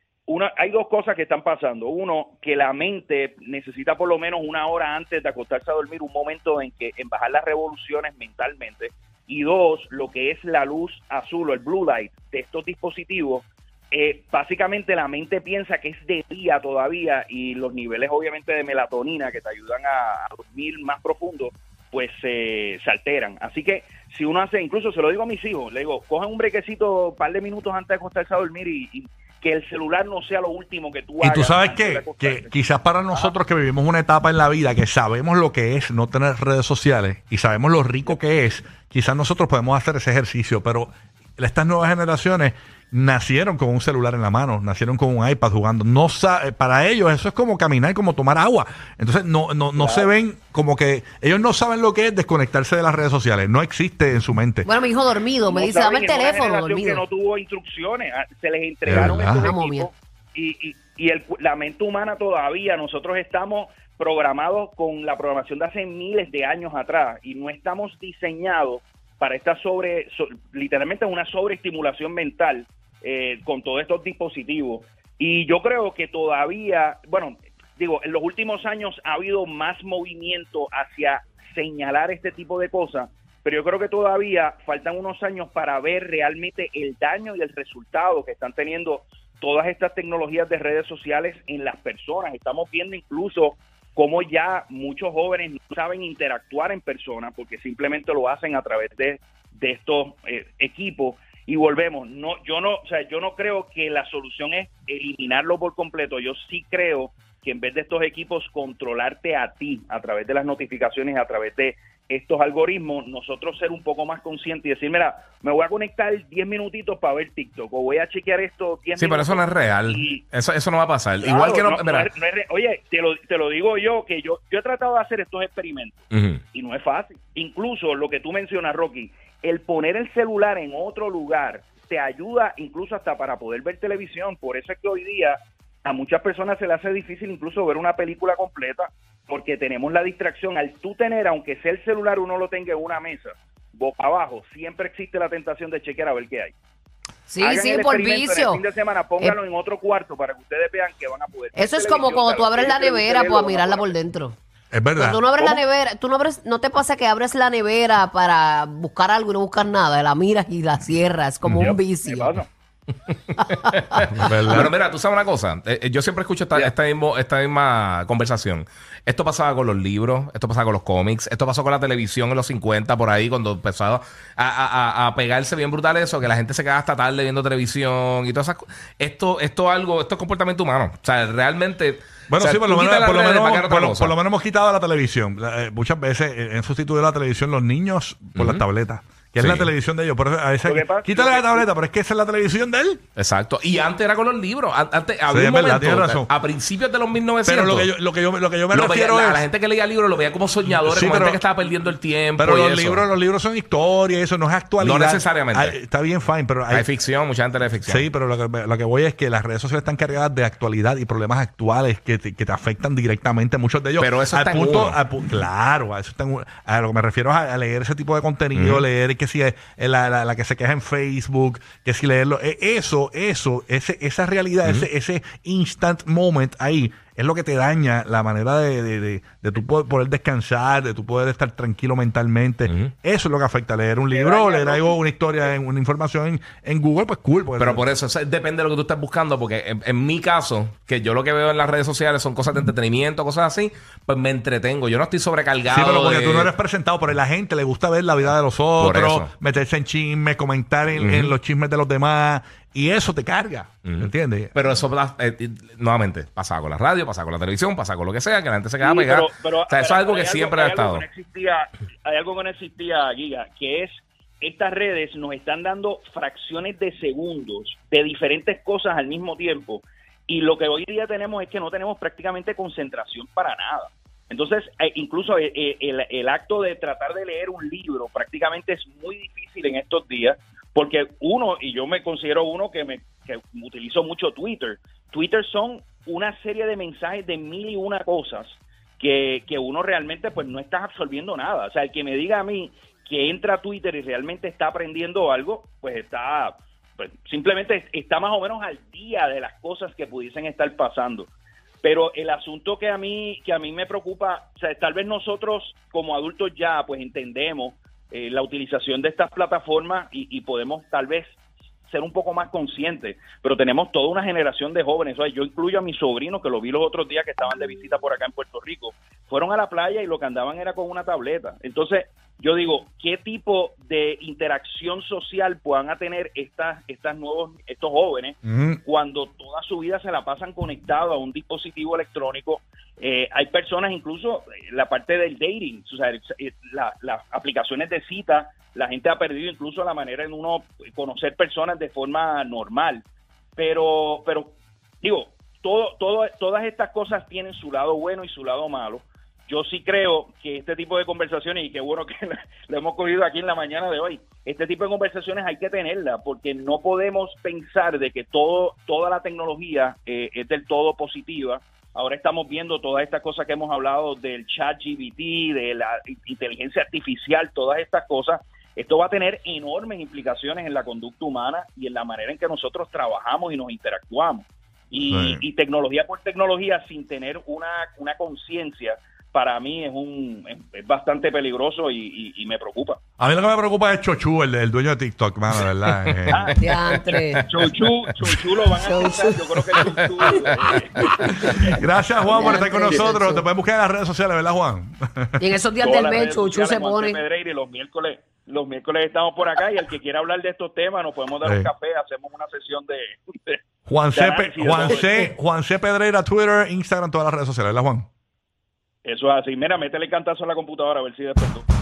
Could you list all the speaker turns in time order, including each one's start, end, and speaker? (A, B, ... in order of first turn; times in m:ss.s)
0:00.3-0:32.5 A
0:31.2-0:54.7 B
0:49.8-0:50.1 A
0:54.6-0:57.0 C
0:55.5-2:00.2 A
0:58.9-0:59.5 B
0:58.9-0:59.9 C
1:59.0-2:02.1 D
2:01.2-2:06.0 A
2:06.1-2:06.4 D
2:06.5-2:26.5 A
2:27.3-2:28.6 C
2:27.4-2:33.9 A
2:31.5-2:34.4 C
2:34.7-2:35.2 B
2:35.0-2:42.4 C
2:41.5-2:42.5 A
2:43.4-2:43.7 C
2:43.9-3:04.1 D
2:44.1-2:44.7 B
3:02.3-3:13.0 B
3:08.4-3:08.6 D
3:09.4-3:09.7 D
3:10.6-3:11.6 A
3:13.2-3:17.9 D
3:15.3-3:16.3 B
3:17.4-3:19.4 B
3:18.7-3:23.0 D
3:20.7-3:21.4 B
3:22.4-3:26.9 B
3:24.8-3:25.8 D
3:26.7-3:28.1 D
3:27.8-3:57.8 B
3:34.0-3:35.0 D
3:38.5-3:38.8 D
3:54.1-3:54.9 A
3:57.6-4:06.5 D
4:05.7-4:14.5 B
4:08.8-4:09.3 D
4:11.0-4:11.3 D
4:13.8-4:21.0 D
4:18.8-5:01.3 A
5:01.8-5:11.4 A
5:11.9-5:43.0 A
5:28.4-5:28.8 B
5:43.6-6:23.0 A
6:15.1-6:15.4 B
6:23.2-6:26.4 B
6:26.1-6:26.6 D
6:26.3-6:31.8 A
6:26.6-6:27.4 C
6:28.8-6:29.5 C
6:29.8-6:31.4 D
6:31.4-6:35.4 B
6:32.2-6:33.5 C
6:35.4-6:37.2 C
6:35.8-6:43.6 A
6:41.4-6:41.7 B
6:43.9-6:48.1 B
6:44.1-6:45.3 A
6:49.0-6:51.6 A